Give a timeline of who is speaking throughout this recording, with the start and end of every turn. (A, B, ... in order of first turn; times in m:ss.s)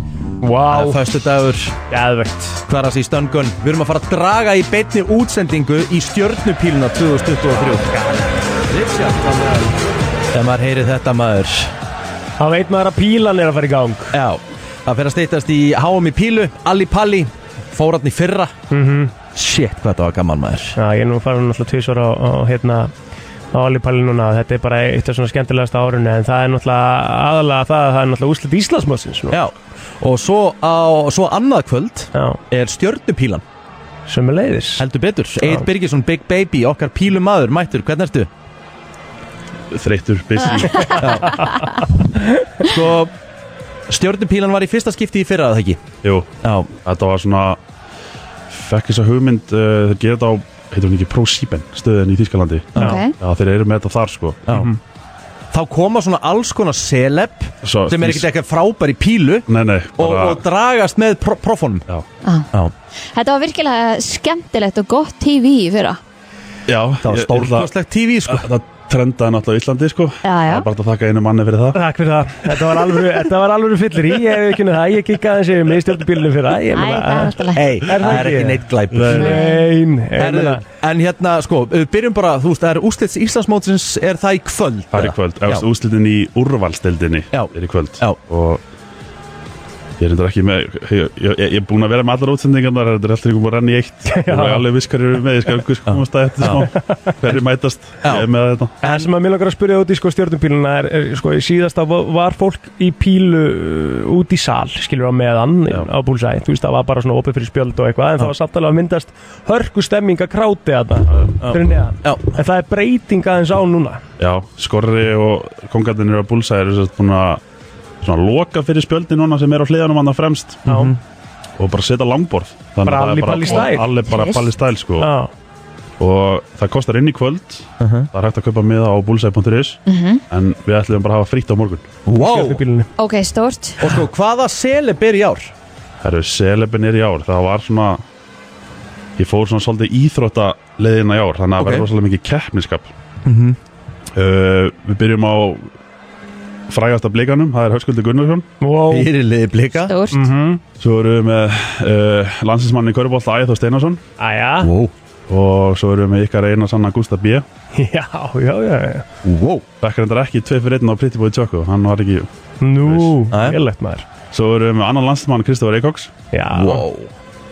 0:00.4-0:01.0 A
0:00.7-0:01.8 B
0:01.9-0:02.6 A
0:02.7-0:07.9 B
0:07.6-0:08.4 A
0:08.7-0:09.8 B
0:10.3-0:11.7 B
0:12.4-0:14.2 A
0:14.1-0:18.5 B
0:18.7-0:19.1 A
0:19.4-0:20.8 B
0:20.8-0:22.9 A
0:23.5-0:29.4 A
0:29.3-0:33.4 B
0:32.2-0:32.4 A
0:34.1-0:34.9 A
0:34.8-0:38.3 B
0:35.4-0:35.7 A
0:39.7-0:41.0 C
0:41.0-0:41.4 B
0:42.6-0:43.1 B
0:43.9-0:45.8 B
0:46.0-0:47.6 C
0:46.4-0:46.7 B
0:48.5-0:54.6 C
0:52.8-0:53.1 D
0:55.5-1:01.9 B
0:57.6-0:58.3 C
0:59.5-1:00.4 C
1:03.1-1:06.0 D
1:06.7-1:07.7 C
1:07.0-1:08.5 B
1:08.3-1:11.8 C
1:10.2-1:10.7 D
1:11.7-1:17.4 A
1:16.7-1:17.9 D
1:17.5-1:19.4 B
1:17.9-1:20.6 A
1:18.9-1:19.2 C
1:19.2-1:19.6 D
1:20.2-1:25.7 B
1:24.9-1:28.6 C
1:27.3-1:28.2 B
1:30.0-1:38.7 C
1:34.1-1:34.7 A
1:35.9-1:36.7 B
1:38.0-1:38.3 B
1:38.8-1:54.0 A
1:38.8-1:39.1 B
1:51.4-1:52.4 B
1:54.2-1:57.4 C
1:58.0-2:00.6 C
2:00.7-2:01.0 B
2:00.7-2:00.9 A
2:01.6-2:05.1 C
2:02.8-2:03.9 A
2:03.4-2:04.5 D
2:05.0-2:05.3 A
2:06.0-2:11.9 C
2:07.8-2:08.1 B
2:09.9-2:10.2 D
2:12.1-2:12.6 B
2:12.2-2:12.9 A
2:13.0-2:14.0 D
2:13.8-2:15.5 B
2:16.0-2:18.0 C
2:19.2-2:22.9 C
2:21.6-2:21.9 B
2:23.2-2:23.6 B
2:24.2-2:25.7 C
2:26.7-2:28.5 C
2:28.6-2:29.1 A
2:28.9-2:29.9 B
2:29.9-2:30.2 D
2:30.1-2:30.6 A
2:30.8-2:34.0 C
2:34.2-2:34.7 A
2:34.6-2:34.9 B
2:35.3-2:37.4 C
2:37.7-2:39.1 A
2:39.2-2:39.6 B
2:39.8-2:42.3 C
2:42.6-2:44.1 A
2:42.8-2:43.2 C
2:43.3-2:43.6 B
2:44.3-2:46.2 C
2:46.3-2:46.9 A
2:46.5-2:47.1 B